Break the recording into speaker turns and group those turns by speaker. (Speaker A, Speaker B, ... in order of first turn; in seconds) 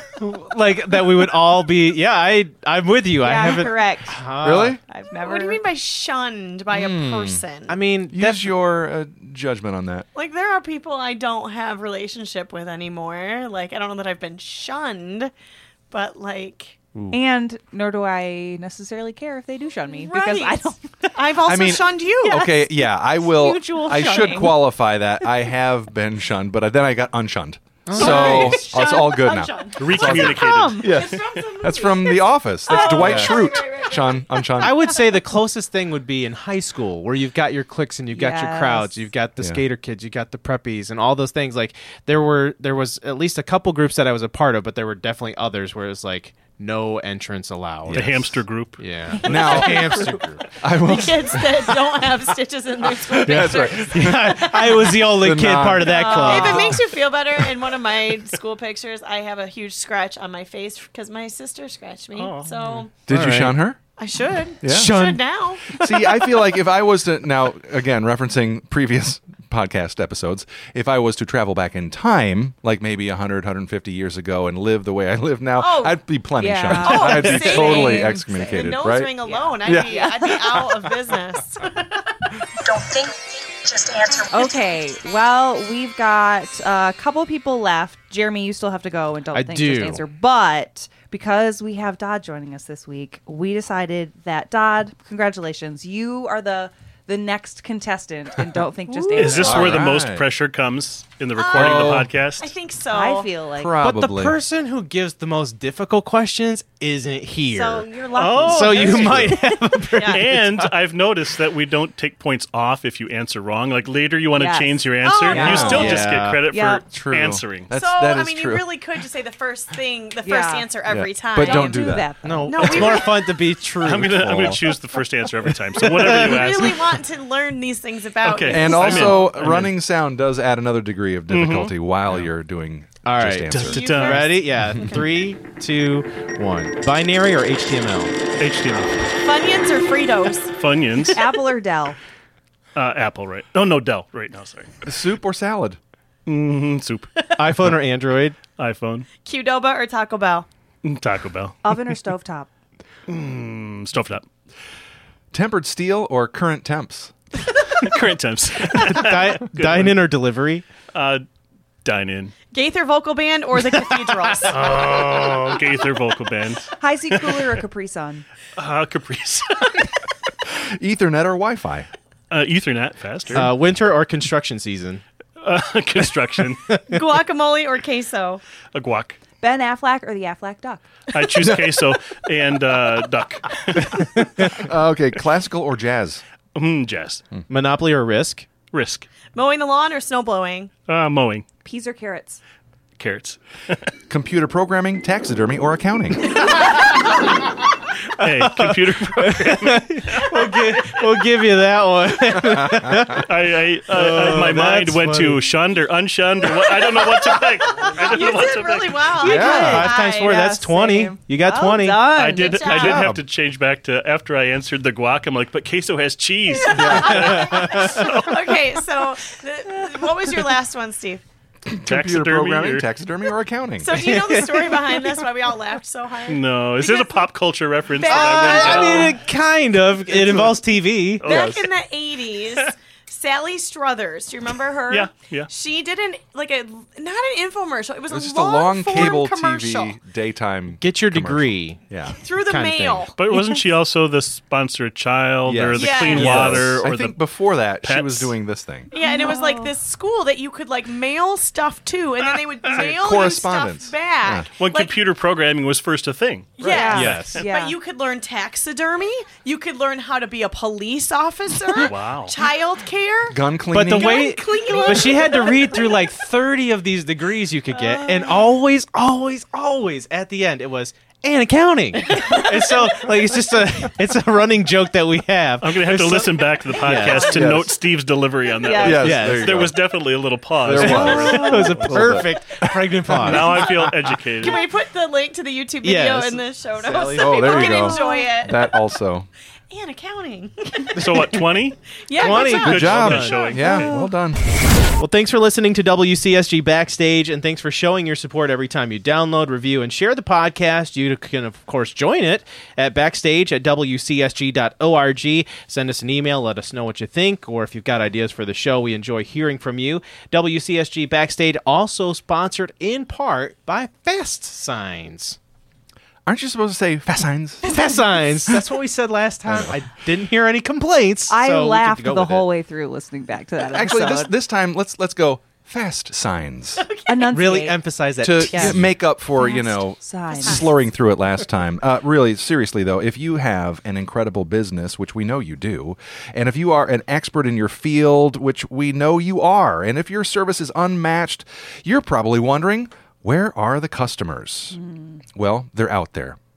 Speaker A: 0.2-4.8, 7.7-8.4, 27.9-28.8, 32.9-33.5, 34.6-48.1, 48.8-50.5, 53.9-56.8, 63.1-63.6, 64.7-65.2, 89.3-90.0, 98.9-99.6, 103.8-110.7, 115.5-116.4, 122.2-124.7, 125.6-126.7, 133.0-138.2, 147.3-148.4, 158.7-160.6, 163.9-164.3, 173.3-175.0, 176.7-177.0, 184.0-184.5, 187.5-188.5, 196.4-197.1, 198.2-203.3, 203.9-205.4, 209.2-212.1, 216.9-218.1, 223.9-224.8, 228.1-231.2, 240.8-241.8, 242.4-243.1, 256.9-257.4, 263.7-277.4, 278.8-279.6, 280.7-283.8, 285.8-287.8, 292.1-293.5, 295.0-315.4, 317.6-322.4, 327.2-328.9
Speaker B: 3.2-4.2, 4.9-5.6, 17.1-21.2, 23.2-24.7, 28.0-29.7, 30.4-30.7, 38.1-39.0, 56.0-56.5, 76.4-78.6, 79.3-80.4, 84.1-99.8, 102.9-103.8, 107.5-108.7, 114.3-115.9, 116.5-116.8, 120.2-120.7, 121.4-122.6, 141.1-142.0, 151.6-152.5, 166.8-168.2, 179.4-180.8, 191.6-192.4, 209.2-212.7, 248.9-249.7, 256.6-257.8, 278.6-278.9, 287.7-288.3, 293.7-294.0, 321.3-324.3, 327.1-327.8, 328.5-328.8, 329.3-330.6
Speaker C: 4.4-4.8, 6.7-7.4, 8.1-10.1, 21.4-35.0, 47.9-48.4, 49.2-51.8, 52.8-56.9, 63.1-63.8, 64.6-65.2, 65.7-80.7, 99.3-100.2, 101.5-102.1, 103.5-104.4, 115.3-116.0, 116.9-118.7, 120.9-122.1, 122.6-123.1, 128.5-134.0, 144.8-145.8, 155.3-157.1, 170.5-171.9, 181.4-181.7, 184.4-186.2, 194.1-196.4, 209.2-209.9, 212.7-213.2, 216.8-217.1, 221.7-224.4, 231.2-231.7, 238.1-242.2, 245.4-248.9, 252.7-254.4, 263.3-264.3, 277.2-277.7, 278.8-279.7, 280.6-283.6, 287.1-289.3, 292.6-294.4, 316.2-317.7, 319.5-319.8, 323.6-326.8, 328.2-344.8, 345.3-346.4
Speaker D: 5.2-7.8, 10.1-15.3, 15.9-16.8, 19.9-22.6, 27.9-34.5, 49.2-50.2, 50.8-55.0, 55.8-63.0, 64.0-65.8, 75.6-76.0, 76.7-82.1, 101.4-103.3, 107.7-110.2, 115.0-115.9, 117.7-123.3, 125.8-129.3, 133.6-135.1, 139.1-140.5, 149.2-150.5, 162.5-164.7, 176.9-178.4, 189.3-190.7, 207.8-210.4, 212.2-213.1, 216.5-221.2, 223.8-227.2, 228.0-229.2, 231.2-239.9, 242.2-243.6, 245.7-246.6, 248.9-254.9, 256.6-266.1, 283.5-283.8, 284.4-288.7, 289.7-291.3, 292.1-293.9, 326.8-327.3, 330.3-330.8
Speaker E: 29.8-31.2, 47.9-48.8, 62.1-62.8, 99.2-102.5, 108.1-109.3, 110.0-117.7, 123.8-126.9, 128.2-129.7, 131.3-131.7, 133.5-134.4, 138.4-139.1, 140.6-141.2, 142.7-144.8, 146.2-147.7, 148.5-149.1, 150.8-151.6, 153.1-154.2, 157.8-160.0, 160.9-161.2, 161.8-162.3, 164.5-167.6, 168.6-169.9, 172.3-173.5, 175.4-176.7, 178.7-179.2, 181.1-184.1, 186.5-187.2, 188.7-189.1, 190.9-191.4, 193.0-193.8, 198.2-201.0, 203.2-209.2, 212.1-218.6, 221.8-222.9, 226.3-229.2, 230.1-230.6, 231.2-231.7, 234.9-235.5, 243.2-247.2, 247.8-248.3, 254.6-257.3, 261.7-262.3, 275.6-282.2, 283.1-284.7, 290.9-293.9